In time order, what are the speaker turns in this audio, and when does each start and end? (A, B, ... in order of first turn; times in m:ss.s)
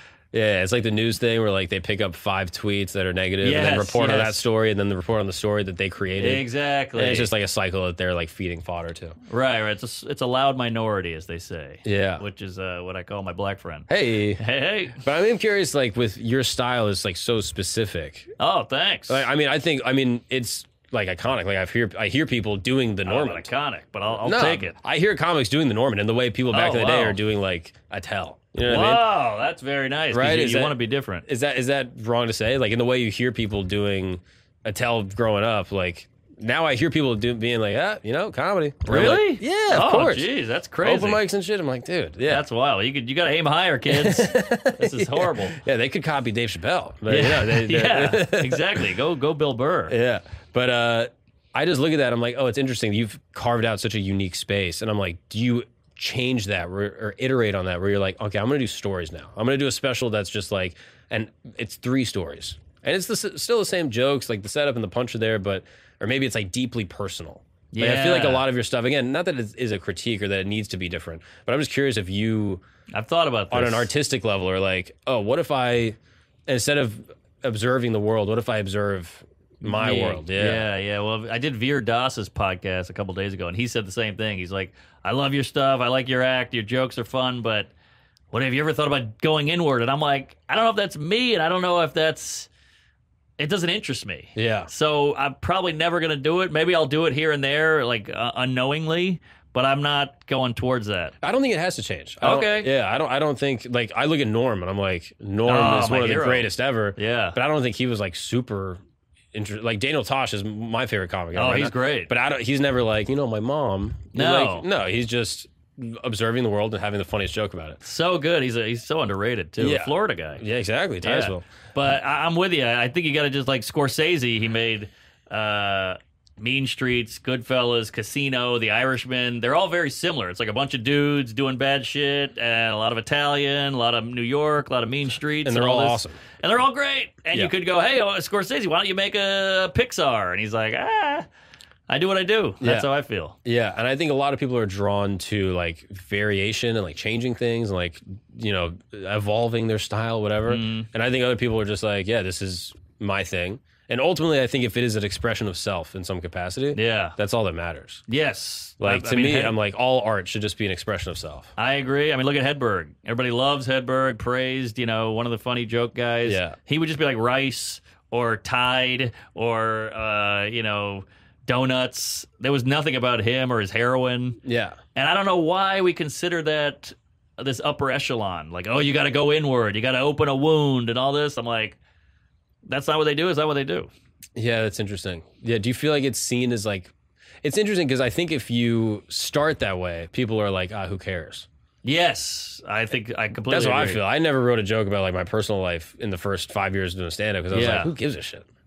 0:00.3-0:09.2 A
0:03.4-0:04.5 B
0:06.2-0:07.3 B
0:09.3-0:15.0 B
0:11.8-0:12.2 A
0:13.9-0:14.4 A
0:15.0-0:18.3 A
0:18.4-0:19.3 B
0:19.1-0:23.5 A
0:23.1-0:24.8 B
0:24.2-0:29.1 A
0:26.5-0:27.2 B
0:28.6-0:31.3 B
0:30.1-0:40.3 A
0:38.9-0:41.2 B
0:40.8-0:42.4 A
0:42.3-0:45.6 B
0:43.9-0:48.9 A
0:47.1-0:50.0 B
0:49.9-1:12.6 A
1:07.7-1:08.5 B
1:12.9-1:13.9 B
1:13.5-1:20.6 A
1:19.6-1:27.7 B
1:28.3-1:32.5 B
1:33.4-1:41.2 B
1:34.4-1:34.7 A
1:41.2-1:48.8 A
1:42.2-1:42.7 B
1:45.5-1:47.4 B
1:49.3-1:57.8 A
1:51.3-1:52.1 B
1:54.1-1:54.7 B
1:57.8-2:00.4 B
1:59.6-2:01.5 A
2:01.0-2:21.3 B
2:15.4-2:16.2 A
2:21.9-2:23.4 B
2:22.6-2:22.9 A
2:23.4-2:38.0 A
2:30.5-2:30.9 B
2:36.8-2:37.2 B
2:38.1-2:39.6 B
2:38.8-2:41.5 A
2:41.6-2:54.4 B
2:46.2-2:46.6 A
2:54.4-2:54.8 A
2:55.0-3:01.8 B
3:02.6-3:03.9 B
3:04.4-3:06.9 A
3:07.4-3:11.5 A
3:11.8-3:14.0 B
3:13.5-3:18.5 A
3:17.5-3:17.9 B